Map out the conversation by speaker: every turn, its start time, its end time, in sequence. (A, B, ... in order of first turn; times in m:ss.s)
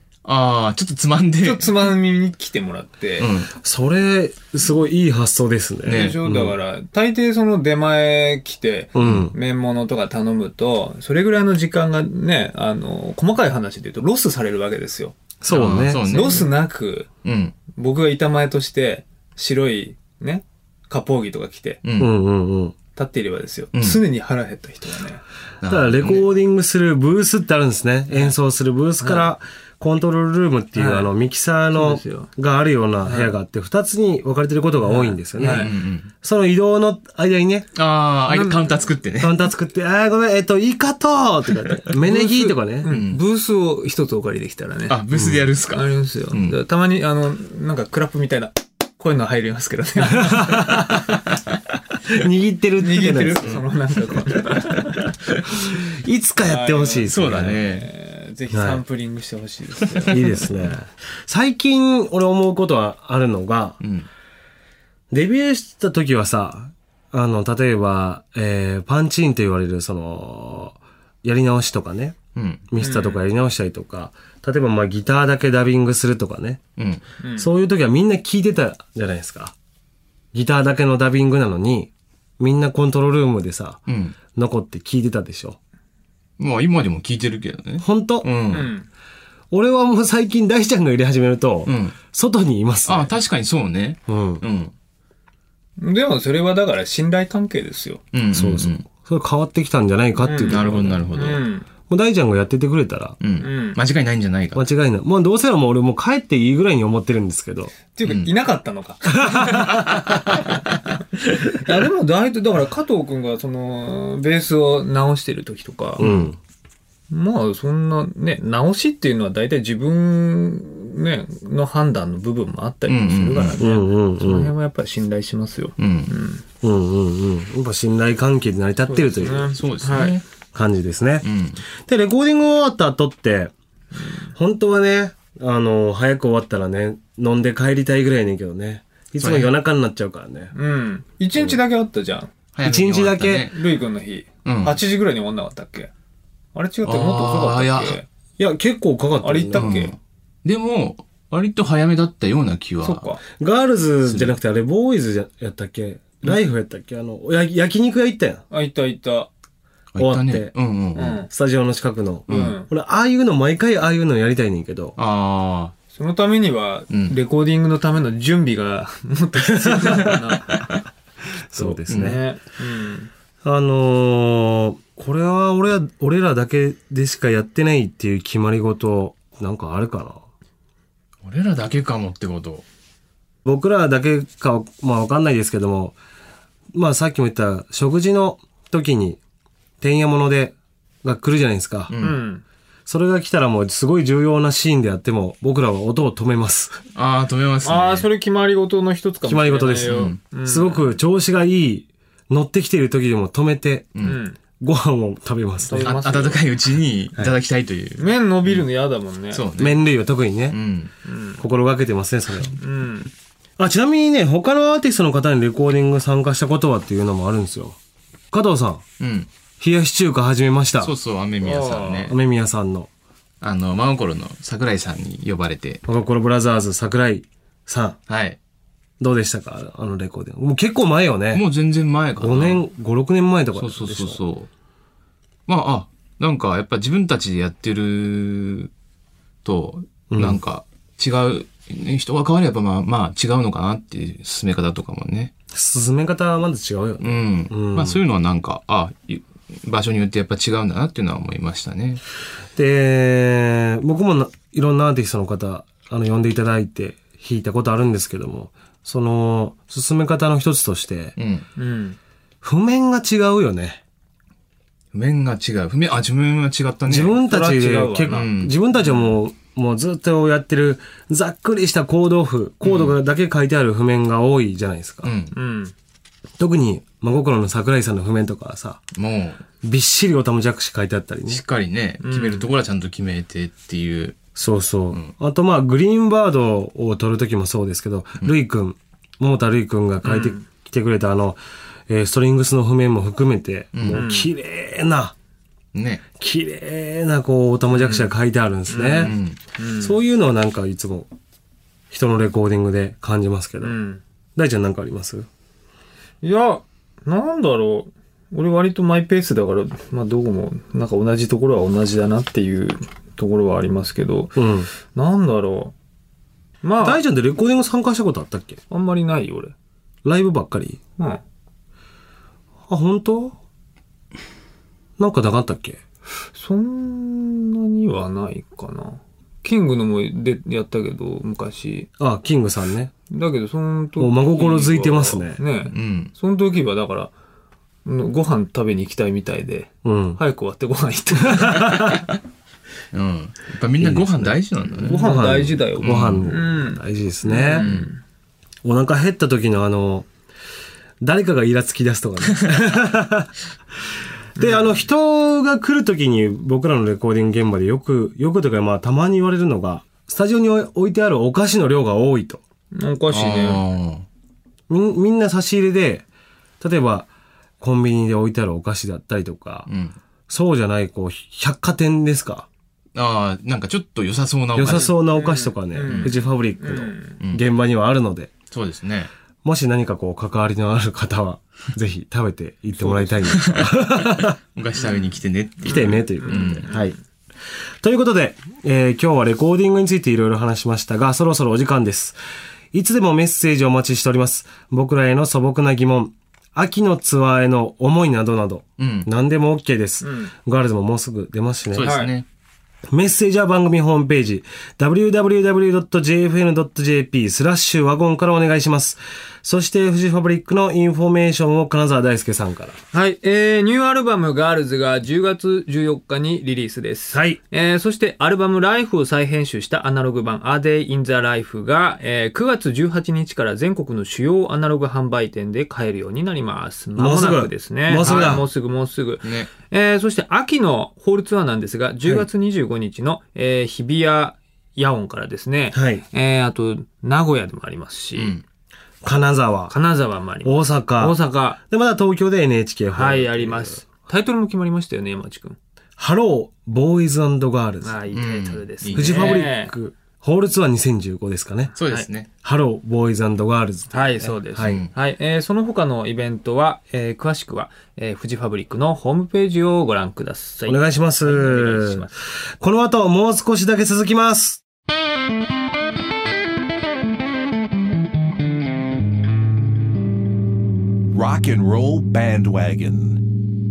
0:00.2-0:01.9 A
0:01.4-0:03.3 B
0:03.2-0:03.5 A
0:03.6-0:06.5 C
0:05.9-0:06.3 A
0:05.9-0:15.2 B
0:09.0-0:09.3 C
0:09.0-0:09.3 A
0:15.4-0:16.3 C
0:15.5-0:16.5 A
0:16.0-0:17.1 B
0:17.2-0:17.6 A
0:17.6-0:21.8 B
0:21.8-0:22.1 A
0:22.0-0:22.8 C
0:22.9-0:25.2 B
0:23.7-0:24.0 A
0:25.6-0:26.3 A
0:25.7-0:35.7 C
0:29.0-0:29.3 B
0:30.8-0:31.1 B
0:31.7-0:32.3 B
0:33.0-0:33.4 B
0:34.8-0:35.7 B
0:35.4-0:36.1 A
0:36.2-0:37.7 C
0:37.8-0:39.4 A
0:38.3-0:38.8 B
0:39.2-0:42.9 C
0:42.0-0:45.1 B
0:42.9-0:43.2 A
0:44.9-0:46.6 A
0:45.6-0:50.9 B
0:50.2-0:51.1 C
0:52.1-0:53.5 C
0:52.8-0:55.0 B
0:54.5-0:55.5 A
0:55.9-0:57.6 C
0:56.4-1:00.5 B
0:57.1-0:57.9 A
0:58.5-0:58.8 C
1:00.0-1:00.3 A
1:00.1-1:03.8 C
1:03.8-1:04.1 A
1:05.1-1:12.2 C
1:12.4-1:12.7 A
1:12.7-1:16.6 C
1:12.8-1:13.2 B
1:16.8-1:17.0 A
1:17.2-1:17.5 B
1:17.4-1:19.5 C
1:20.3-1:25.6 C
1:23.9-1:24.2 A
1:26.4-1:28.7 A
1:27.8-1:28.3 C
1:28.5-1:28.9 B
1:29.5-1:33.1 C
1:31.6-1:32.0 A
1:32.9-1:34.7 A
1:34.1-1:34.4 C
1:35.8-1:38.0 B
1:38.1-1:38.8 A
1:38.3-1:41.0 C
1:40.2-1:41.7 B
1:40.5-1:41.5 A
1:41.9-1:43.2 C
1:43.2-1:44.6 A
1:43.4-1:43.8 B
1:44.6-1:47.8 C
1:47.9-1:49.8 B
1:48.0-1:48.3 A
1:49.2-1:49.8 C
1:49.7-1:50.1 A
1:51.6-1:56.0 B
1:56.0-1:56.3 A
1:56.0-1:56.4 C
1:57.1-2:06.4 B
2:02.8-2:03.6 A
2:03.6-2:04.5 C
2:05.8-2:06.1 A
2:06.6-2:09.5 C
2:08.9-2:10.2 B
2:09.6-2:10.2 A
2:10.5-2:11.3 C
2:11.2-2:11.6 A
2:11.8-2:13.5 C
2:14.4-2:20.5 C
2:19.2-2:19.5 A
2:20.5-2:22.3 B
2:22.6-2:23.6 A
2:22.6-2:23.5 C
2:23.5-2:25.9 B
2:24.4-2:24.8 A
2:26.5-2:28.1 B
2:26.8-2:28.0 A
2:28.4-2:29.8 C
2:29.2-2:30.0 B
2:29.5-2:33.2 A
2:32.8-2:33.2 B
2:33.3-2:38.4 C
2:34.0-2:34.4 A
2:38.5-2:39.3 B
2:40.0-2:41.2 A
2:40.0-2:40.5 C
2:41.0-2:41.3 B
2:41.3-2:45.0 C
2:42.3-2:42.6 A
2:42.3-2:42.7 B
2:45.0-2:45.7 A
2:45.9-2:50.6 B
2:46.9-2:47.2 A
2:49.5-2:50.3 C
2:51.5-2:52.2 C
2:51.6-2:52.2 A
2:51.7-2:53.1 B
2:53.4-3:00.2 C
3:01.2-3:02.6 A
3:03.4-3:06.0 C
3:06.7-3:09.2 C
3:09.8-3:11.9 C
3:11.9-3:12.2 A
3:12.0-3:12.4 B
3:12.9-3:16.8 C
3:17.0-3:18.1 A
3:17.6-3:20.9 B
3:19.3-3:24.0 C
3:19.8-3:20.2 A
3:24.0-3:24.4 B
3:24.6-3:26.0 C
3:25.6-3:26.4 B
3:25.8-3:28.7 A
3:28.0-3:29.5 B
3:29.3-3:29.8 A
3:29.6-3:30.6 C
3:30.5-3:30.9 A
3:31.0-3:31.4 B
3:31.4-3:32.5 C
3:32.5-3:33.1 B
3:33.6-3:37.8 C
3:38.3-3:38.8 C
3:39.0-3:39.3 A
3:39.6-3:40.9 C
3:40.8-3:42.1 A
3:41.4-3:42.1 B
3:42.1-3:42.9 C
3:43.4-3:45.8 A
3:45.9-3:48.0 C
3:48.1-3:48.4 A
3:49.0-3:51.4 C
3:51.3-3:52.6 A
3:52.2-3:54.2 C
3:53.6-3:54.5 A
3:55.5-3:58.7 A
3:59.4-4:05.3 A
4:00.1-4:00.4 C
4:05.5-4:08.0 C
4:07.0-4:12.0 A
4:12.6-4:21.1 C
4:21.2-4:21.5 A
4:21.6-4:22.0 B
4:22.4-4:23.8 C
4:24.9-4:27.2 A
4:26.9-4:35.1 C
4:27.2-4:28.3 B
4:28.1-4:29.1 A
4:32.6-4:33.0 A
4:35.0-4:35.3 A
4:35.3-4:35.7 B
4:36.4-4:38.8 C
4:39.0-4:39.4 A
4:39.6-4:41.4 C
4:41.3-4:44.2 A
4:42.0-4:42.5 B
4:44.4-4:55.1 C
4:50.0-4:50.5 B
4:53.8-4:54.1 A
4:53.9-4:54.3 B
4:55.7-4:56.0 A
4:56.2-4:59.2 C
4:57.7-4:58.1 B
4:58.7-5:00.0 B
4:59.0-4:59.4 A
4:59.8-5:01.1 C
5:01.9-5:03.7 C
5:03.6-5:04.0 B
5:04.4-5:05.3 C
5:06.2-5:15.7 B
5:14.4-5:14.7 C
5:16.6-5:17.0 B
5:16.8-5:18.6 C
5:18.7-5:19.5 B
5:20.0-5:20.8 C
5:22.7-5:23.4 C
5:25.0-5:25.8 C
5:26.3-5:31.9 B
5:32.0-5:32.9 C
5:33.1-5:37.1 B
5:34.0-5:35.4 C
5:35.6-5:36.1 A
5:37.8-5:42.0 B
5:39.8-5:40.2 C
5:41.4-5:41.9 C
5:42.9-5:45.3 A
5:43.8-5:47.7 C
5:44.8-5:48.0 B
5:45.8-5:46.4 A
5:47.6-5:47.9 A
5:48.6-5:50.1 C
5:51.0-5:53.3 C
5:54.4-5:54.8 B
5:54.4-6:02.4 C
6:02.7-6:03.6 B
6:03.1-6:04.1 A
6:04.7-6:06.0 C
6:06.6-6:07.1 C
6:07.6-6:09.7 C
6:09.7-6:10.0 A
6:10.3-6:12.5 C
6:13.0-6:15.0 A
6:14.6-6:18.3 C
6:14.7-6:17.2 B
6:15.9-6:16.2 A
6:18.5-6:19.1 A
6:19.4-6:24.4 C
6:22.8-6:23.9 A
6:24.6-6:26.8 A
6:25.6-6:27.0 B
6:25.7-6:26.9 C
6:27.8-6:32.2 C
6:32.7-6:42.0 C
6:38.8-6:39.1 A
6:40.0-6:40.3 B
6:41.7-6:42.3 A
6:41.8-6:42.1 B
6:42.9-6:52.8 C
6:52.9-7:18.4 B
6:57.1-6:57.4 C
7:07.0-7:08.5 C
7:08.0-7:08.5 A
7:09.2-7:09.5 A
7:15.7-7:16.0 C
7:18.1-7:18.4 A
7:19.0-7:19.8 C
7:19.7-7:21.6 B
7:20.4-7:21.2 C
7:21.7-7:23.8 C
7:22.9-7:25.6 B
7:26.0-7:28.0 C
7:27.8-7:29.7 B
7:28.1-7:29.5 A
7:29.0-7:31.8 C
7:31.8-7:32.3 A
7:32.4-7:34.9 C
7:33.9-7:42.1 B
7:34.6-7:34.9 A
7:40.7-7:42.1 C
7:42.6-7:44.6 C
7:51.1-7:53.2 D